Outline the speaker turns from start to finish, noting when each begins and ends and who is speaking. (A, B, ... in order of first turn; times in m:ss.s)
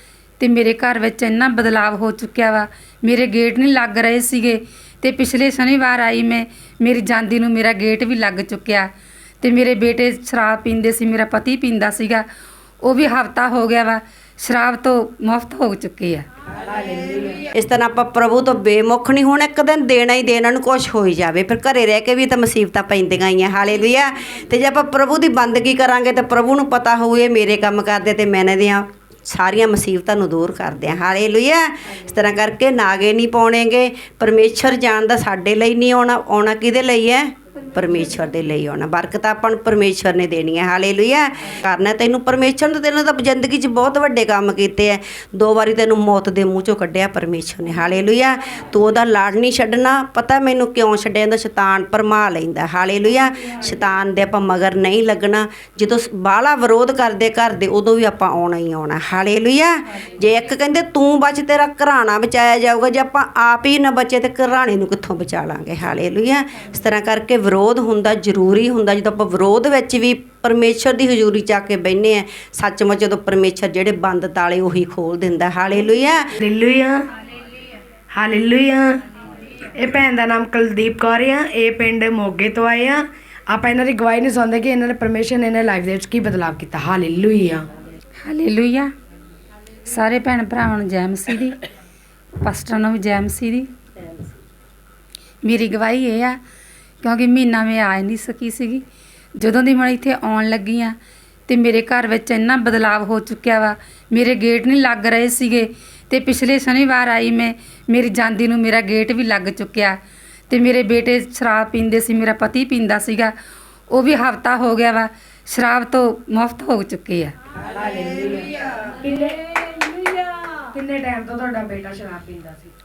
0:00.4-0:08.9 A
0:09.4-0:12.2 A
0:12.8-0:16.2 A
0:16.6-0:17.5 B
0:17.5-1:16.3 C
1:16.3-1:17.0 B
1:18.1-1:19.0 B
1:19.7-1:27.7 B
1:28.2-1:28.9 A
1:29.8-1:31.6 A
1:32.4-1:33.7 A
1:33.9-1:34.4 C
1:35.4-1:36.4 A
1:37.0-1:38.8 A
1:39.4-1:40.9 A
1:41.5-1:50.0 A
1:50.5-1:53.3 A
1:53.9-1:57.3 A
1:57.6-2:02.7 B